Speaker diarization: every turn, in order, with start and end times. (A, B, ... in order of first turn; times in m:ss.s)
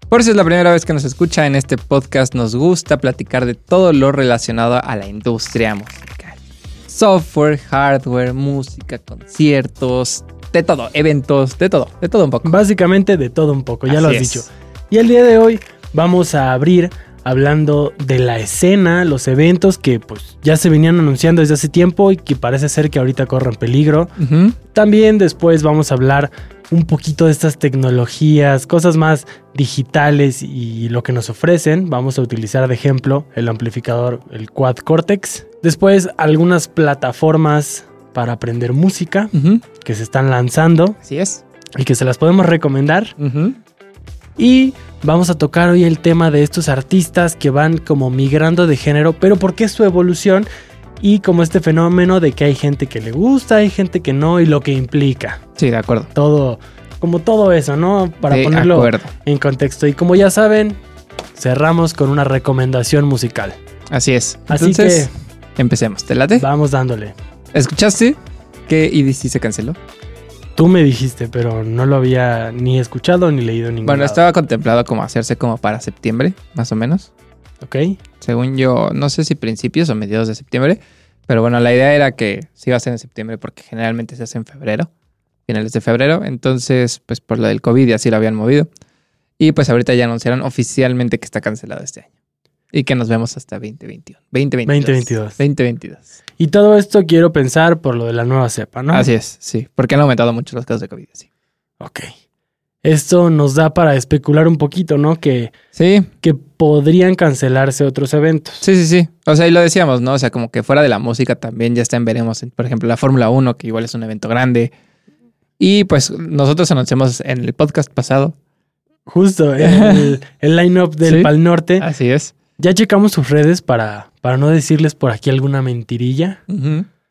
0:00.1-0:12.6 A
0:12.4-0:24.2 B
0:13.9-0:14.4 A
0:24.2-0:24.6 A
0:24.7-0:41.0 B
0:39.3-0:39.6 A
0:41.0-0:41.4 A
0:41.8-0:43.1 B
0:43.2-0:43.6 A
0:44.4-0:50.5 B
0:51.0-0:55.4 B
0:55.6-0:56.1 A
0:56.1-1:00.8 B
0:58.3-0:59.1 A
1:01.4-1:03.5 B
1:03.9-1:06.5 A
1:04.5-1:05.1 B
1:06.4-1:07.1 B
1:07.5-1:09.8 A
1:10.6-1:14.2 B
1:13.8-1:17.1 A
1:17.6-1:18.0 B
1:18.2-1:24.9 A
1:25.5-1:28.7 A
1:29.4-1:32.1 A
1:32.7-1:36.1 A
1:34.6-1:35.4 B
1:36.4-1:39.1 B
1:38.9-1:41.2 A
1:41.8-1:42.1 B
1:42.8-1:45.5 B
1:45.7-1:46.1 A
1:46.2-1:48.6 B
1:48.6-1:54.7 A
1:55.6-1:58.3 A
1:59.1-2:01.8 B
1:59.6-2:00.2 A
2:01.0-2:02.3 A
2:02.6-2:06.4 B
2:06.5-2:06.9 A